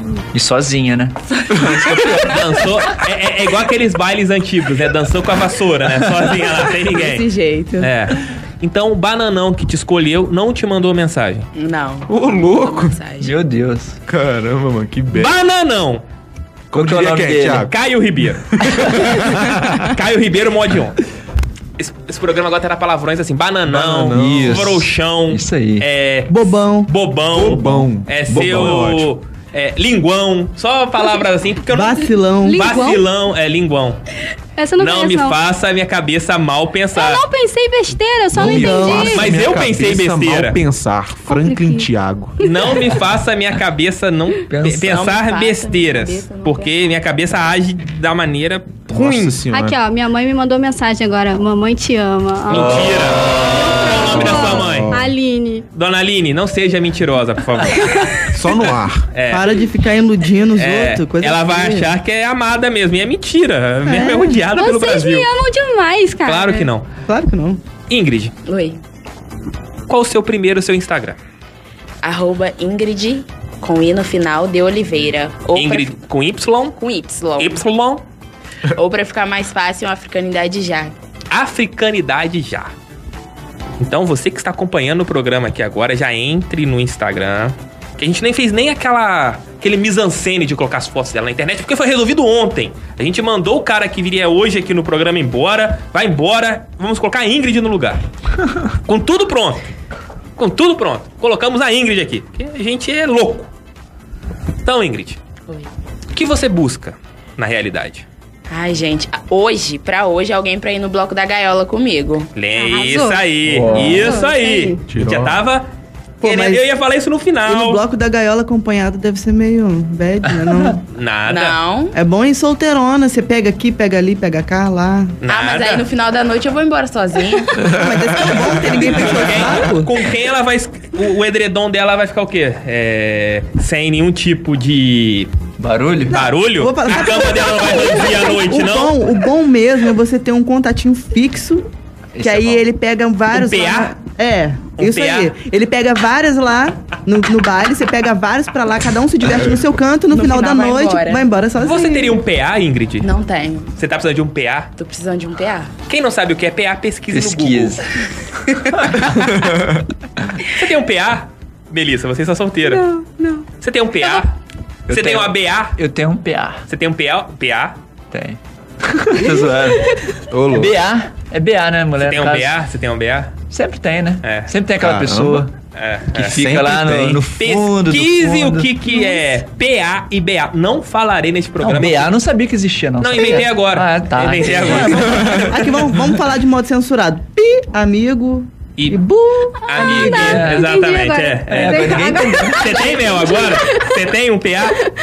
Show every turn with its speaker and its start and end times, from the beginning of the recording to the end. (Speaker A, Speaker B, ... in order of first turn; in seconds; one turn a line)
Speaker A: 0.3-2.4
Speaker B: 1.7-7.3
Speaker C: 6.9-7.9
Speaker B: 7.8-11.5
Speaker C: 11.6-13.3
Speaker D: 12.1-13.0
Speaker A: 13.2-14.0
Speaker D: 14.1-15.3
Speaker B: 15.1-16.0
Speaker D: 16.7-17.7
Speaker A: 16.7-17.7
Speaker B: 17.7-19.0
Speaker D: 18.6-19.9
Speaker B: 19.8-21.0
Speaker B: 21.8-34.0
Speaker D: 23.7-24.8
Speaker A: 24.1-25.9
Speaker E: 26.3-26.9
Speaker D: 27.3-29.1
Speaker A: 27.6-27.9
Speaker E: 31.7-32.9
Speaker F: 32.4-33.0
Speaker F: 34.6-35.4
Speaker B: 34.8-37.2
Speaker F: 37.0-39.3
Speaker D: 38.3-42.4
Speaker E: 38.4-39.2
Speaker B: 39.0-40.6
Speaker F: 41.3-41.9
Speaker B: 42.4-49.4
Speaker A: 44.5-44.9
Speaker C: 44.8-46.7
Speaker D: 48.9-49.8
Speaker F: 49.5-52.8
Speaker B: 52.5-54.9
Speaker D: 52.6-53.1
Speaker F: 53.5-55.7
Speaker D: 53.9-55.1
Speaker B: 55.7-58.1
Speaker D: 58.3-59.1
Speaker B: 59.1-59.5
Speaker E: 59.3-61.9
Speaker B: 60.6-65.3
Speaker E: 63.9-64.4
Speaker F: 64.5-66.7
Speaker B: 66.2-66.9
Speaker E: 67.1-67.6
Speaker B: 67.9-68.3
Speaker C: 68.5-68.8
Speaker B: 69.9-71.2
Speaker C: 72.0-75.9
Speaker B: 75.5-76.8
Speaker C: 76.8-77.6
Speaker B: 77.4-78.0
Speaker C: 78.8-81.0
Speaker B: 81.3-82.7
Speaker B: 83.8-98.0
Speaker B: 98.8-99.6
Speaker B: 100.4-103.5
Speaker B: 104.7-105.2
Speaker B: 106.1-108.1
Speaker C: 108.5-112.3
Speaker B: 112.3-115.7
Speaker F: 112.6-114.8
Speaker A: 113.5-114.1
Speaker D: 114.9-115.4
Speaker E: 116.2-116.6
Speaker B: 116.2-117.8
Speaker E: 117.5-120.8
Speaker B: 120.9-121.6
Speaker C: 121.3-122.0
Speaker E: 121.9-125.2
Speaker B: 125.2-125.9
Speaker C: 125.3-127.6
Speaker E: 127.7-129.9
Speaker D: 128.0-129.6
Speaker B: 128.9-135.3
Speaker A: 135.6-136.2
Speaker B: 136.1-138.9
Speaker E: 136.1-141.7
Speaker A: 142.2-142.6
Speaker E: 142.2-152.2
Speaker B: 143.3-143.9
Speaker B: 144.8-145.3
Speaker C: 150.1-151.3
Speaker B: 151.6-153.1
Speaker C: 153.0-153.7
Speaker B: 153.8-154.7
Speaker C: 154.8-155.7
Speaker B: 155.9-157.8
Speaker A: 157.1-157.9
Speaker A: 158.8-159.1
Speaker D: 159.1-159.8
Speaker B: 160.5-162.9
Speaker F: 162.8-163.4
Speaker B: 163.6-164.3
Speaker A: 164.9-166.6
Speaker B: 164.9-165.8
Speaker B: 166.7-167.8
Speaker A: 168.1-170.0
Speaker D: 170.3-170.8
Speaker A: 170.5-172.6
Speaker B: 172.0-173.3
Speaker A: 173.5-175.5
Speaker B: 174.2-174.5
Speaker D: 174.8-175.4
Speaker B: 175.7-176.4
Speaker A: 176.2-178.9
Speaker D: 176.3-177.2
Speaker B: 177.4-182.1
Speaker A: 181.6-185.4
Speaker B: 183.0-185.5
Speaker E: 184.6-190.4
Speaker D: 185.1-185.5
Speaker B: 189.6-194.8
Speaker F: 189.7-194.1
Speaker A: 190.1-190.7
Speaker A: 191.5-193.1